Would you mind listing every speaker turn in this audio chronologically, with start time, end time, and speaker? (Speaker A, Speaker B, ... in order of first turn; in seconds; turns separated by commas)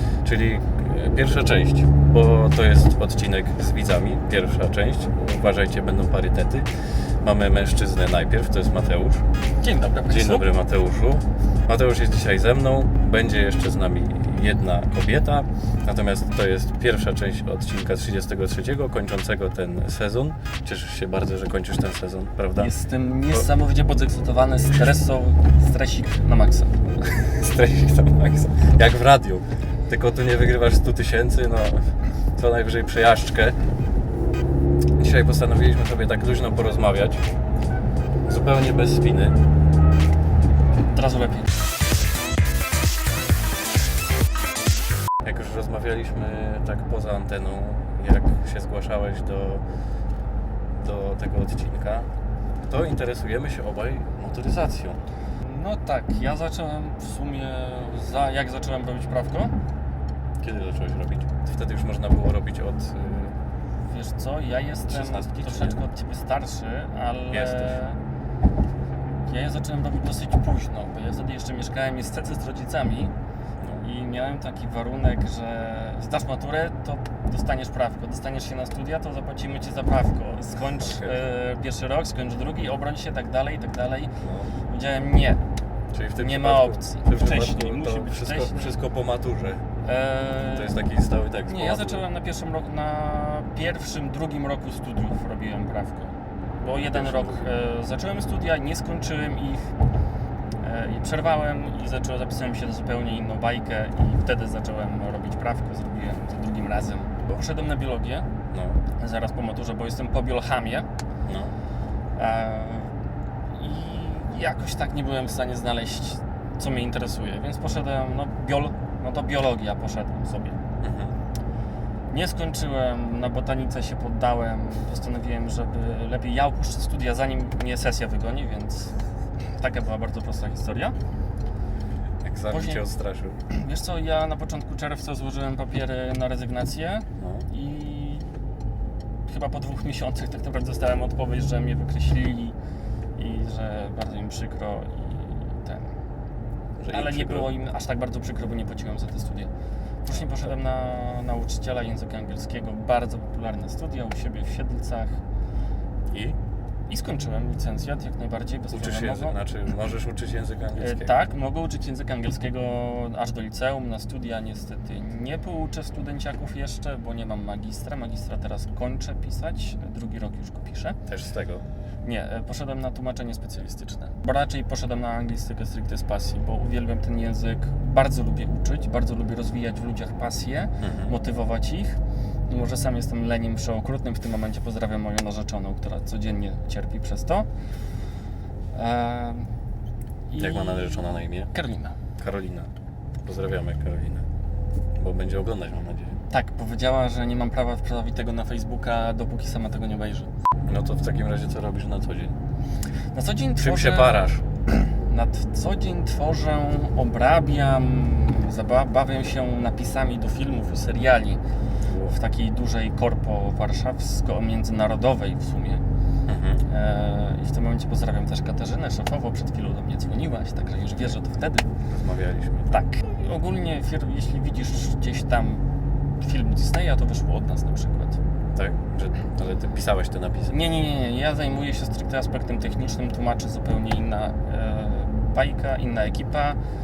Speaker A: 0.2-9.2, Speaker B: 9.6-10.5, Speaker A: 10.1-22.7, Speaker B: 22.6-26.8, Speaker A: 27.0-33.6, Speaker A: 35.0-37.2, Speaker A: 38.3-39.4, Speaker B: 40.9-41.5, Speaker A: 45.2-49.6, Speaker A: 50.8-55.0, Speaker B: 55.4-59.5, Speaker A: 60.4-63.4, Speaker B: 63.9-68.0, Speaker A: 64.9-65.8, Speaker A: 67.3-67.8, Speaker B: 69.2-73.1, Speaker B: 73.8-84.2, Speaker A: 80.8-81.2, Speaker A: 84.2-84.5, Speaker B: 84.7-85.4, Speaker A: 85.9-89.6, Speaker B: 86.2-88.7, Speaker B: 89.8-90.7, Speaker A: 90.4-92.0, Speaker B: 91.4-99.7, Speaker A: 96.7-97.5, Speaker B: 100.6-108.3, Speaker A: 108.5-108.8, Speaker B: 108.9-110.9, Speaker A: 111.2-111.5, Speaker B: 112.1-113.0, Speaker B: 113.5-120.6, Speaker A: 120.8-121.1, Speaker B: 122.1-131.0, Speaker A: 132.2-133.4, Speaker B: 132.5-132.8, Speaker B: 133.5-138.3, Speaker A: 137.2-137.5, Speaker B: 139.3-142.6, Speaker B: 143.1-146.0, Speaker A: 146.8-147.5, Speaker B: 146.9-149.5, Speaker B: 150.0-155.2, Speaker A: 150.1-150.5, Speaker A: 156.1-156.4, Speaker B: 156.9-159.3, Speaker A: 158.7-161.2, Speaker B: 160.8-171.0, Speaker A: 171.1-171.6, Speaker B: 172.0-187.5, Speaker A: 180.8-181.1, Speaker B: 188.7-189.5, Speaker B: 190.3-191.9, Speaker A: 190.4-191.5, Speaker A: 192.2-192.7, Speaker A: 193.2-194.2, Speaker A: 195.0-196.2, Speaker B: 196.3-200.3, Speaker A: 200.7-202.4, Speaker B: 203.1-211.4, Speaker A: 203.6-204.4, Speaker A: 211.8-212.1, Speaker B: 212.1-215.8, Speaker A: 216.3-216.6, Speaker B: 216.7-221.7, Speaker A: 221.9-222.7, Speaker B: 222.7-225.7, Speaker B: 226.2-228.2, Speaker A: 228.5-230.6, Speaker B: 230.5-236.6